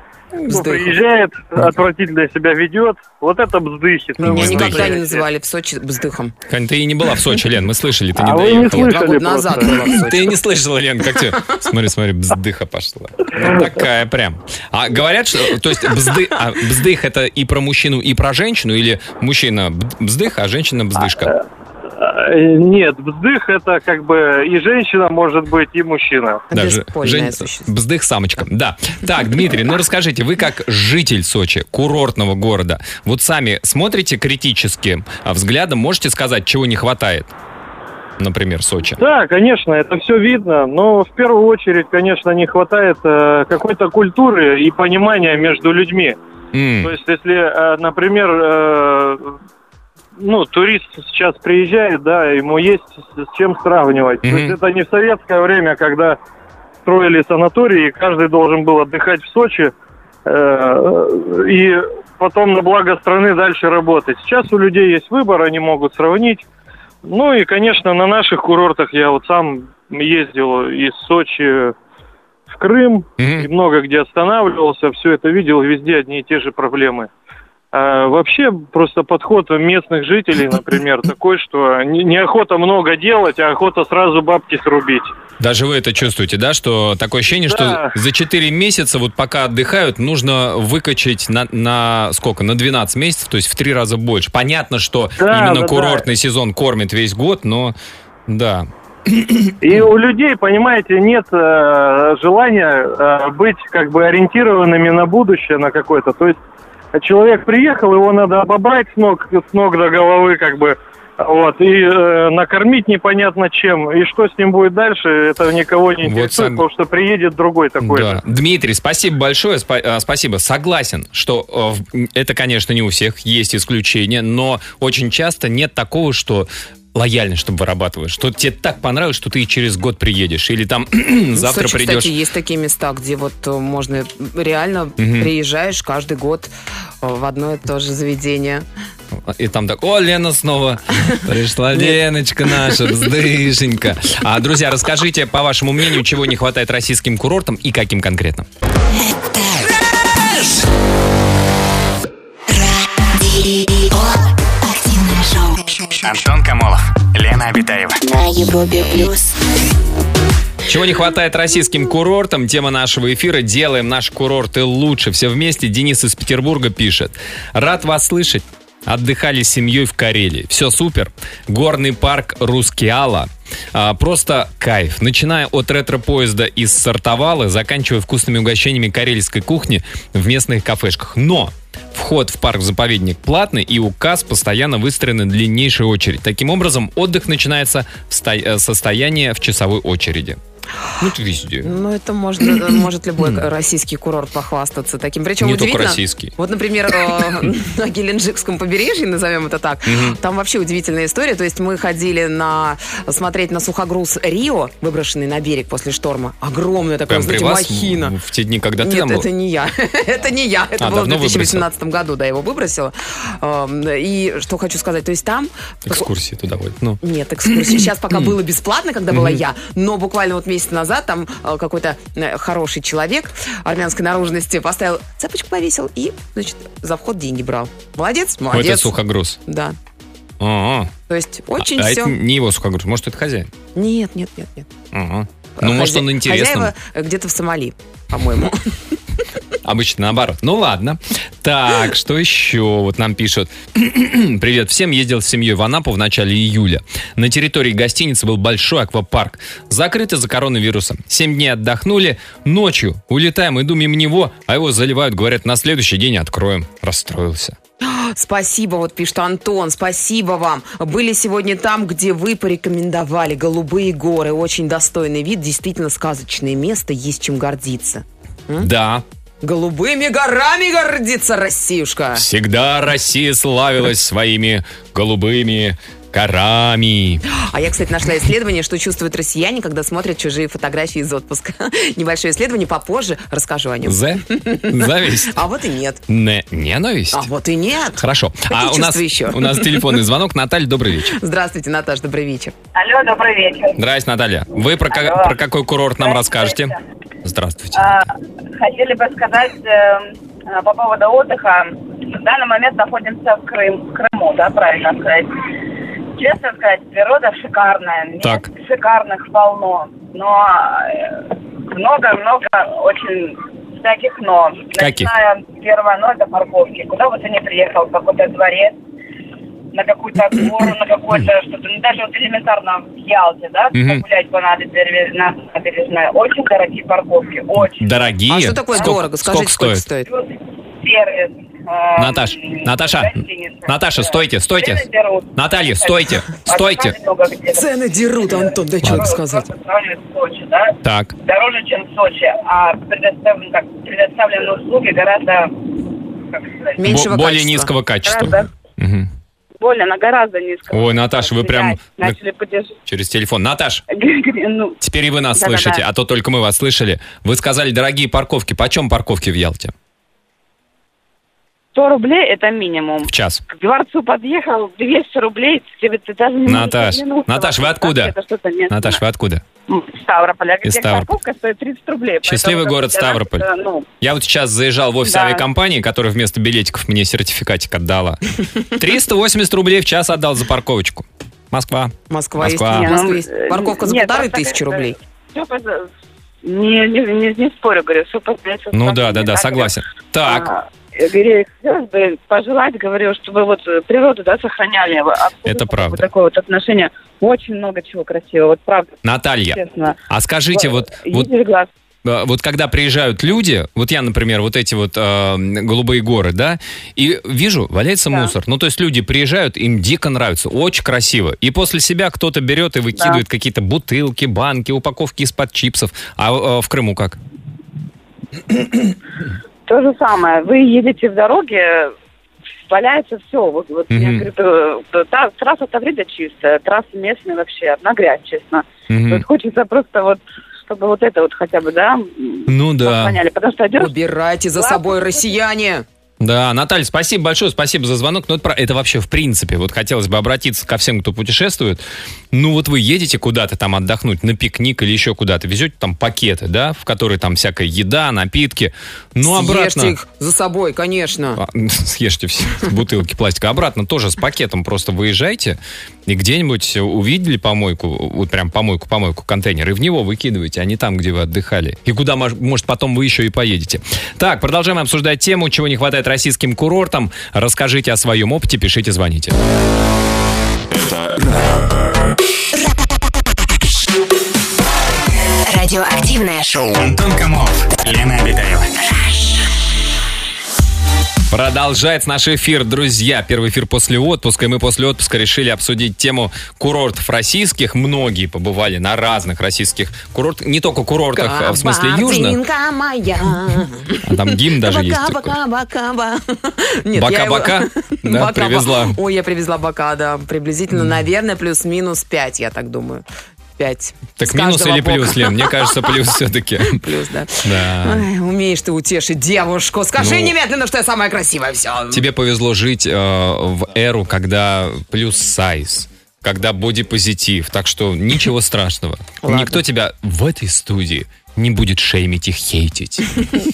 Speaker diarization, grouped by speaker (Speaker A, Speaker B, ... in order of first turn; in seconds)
Speaker A: 0.4-1.0, 4.2-6.3, 8.7-10.4, 26.5-27.7, 131.3-136.5, 137.0-138.6, 141.7-142.0, 191.6-208.1, 208.8-216.1, 217.0-228.9, 229.4-229.8, 231.1-232.2, 233.7-234.7, 235.6-238.7, 257.8-268.7, 269.4-272.2, 277.3-286.0, 287.1-290.0, 291.1-292.5, 328.3-330.1, 337.5-339.5, 346.8-347.7, 382.1-384.9, 433.7-435.8, 449.2-451.4, 491.1-503.0, 503.6-505.9, 506.7-512.1, 519.2-519.6
Speaker B: 0.5-5.2, 8.2-9.8, 21.1-26.4, 39.0-46.2, 46.8-49.3, 50.2-56.2, 56.8-59.7, 60.2-66.4, 67.0-71.7, 72.5-77.1, 77.7-85.1, 87.4-87.9, 95.2-96.0, 99.6-106.4, 106.9-118.2
Speaker C: 4.2-5.0, 6.5-8.9, 9.8-21.3, 26.5-37.3, 38.2-39.0, 46.5-46.9, 54.2-54.5, 73.2-73.5, 85.4-97.8, 98.3-99.3, 116.0-116.6, 117.8-132.1, 135.0-135.3, 139.1-148.5, 160.6-190.4, 191.0-191.7, 192.4-193.4, 195.4-196.3, 199.8-200.2, 207.1-209.3, 210.8-211.7, 215.9-218.3, 219.1-219.4, 228.5-229.4, 230.4-230.9, 231.6-233.5, 234.9-236.7, 239.6-257.6, 268.6-269.0, 272.1-277.2, 283.8-285.4, 286.1-287.3, 288.0-291.1, 293.8-297.9, 308.2-308.5, 314.8-315.1, 323.7-324.0, 327.6-329.9, 331.9-334.8, 335.4-336.9, 340.8-341.1, 346.8-349.1, 350.7-352.2, 352.9-353.8, 354.8-359.7, 363.1-363.4, 366.4-368.1, 368.7-369.4, 370.6-371.1, 372.2-373.5, 374.0-382.9, 388.7-390.5, 395.4-396.1, 399.0-401.3, 402.0-417.2, 423.9-424.3, 428.9-429.2, 432.5-433.2, 436.2-449.9, 451.3-469.4, 481.3-492.4, 494.0-495.4, 496.9-499.0, 504.2-506.8, 507.4-508.1, 510.0-510.3, 511.9-523.3
Speaker D: 152.5-156.0, 158.0-159.3, 475.4-476.7, 479.0-479.4
Speaker E: 156.0-158.0, 470.7-471.7, 476.7-478.8
Speaker F: 292.7-293.8, 294.9-295.4, 296.0-296.8, 297.7-305.4, 306.2-318.7, 319.7-327.9, 330.1-345.6, 346.3-346.8, 348.0-348.5, 349.6-352.7, 353.9-354.8, 355.4-355.8, 361.7-369.0, 369.7-373.8, 375.0-375.4, 382.7-385.9, 386.4-398.9, 399.5-400.0, 400.5-401.7, 413.0-413.2, 419.7-421.9, 422.7-433.9, 434.5-435.3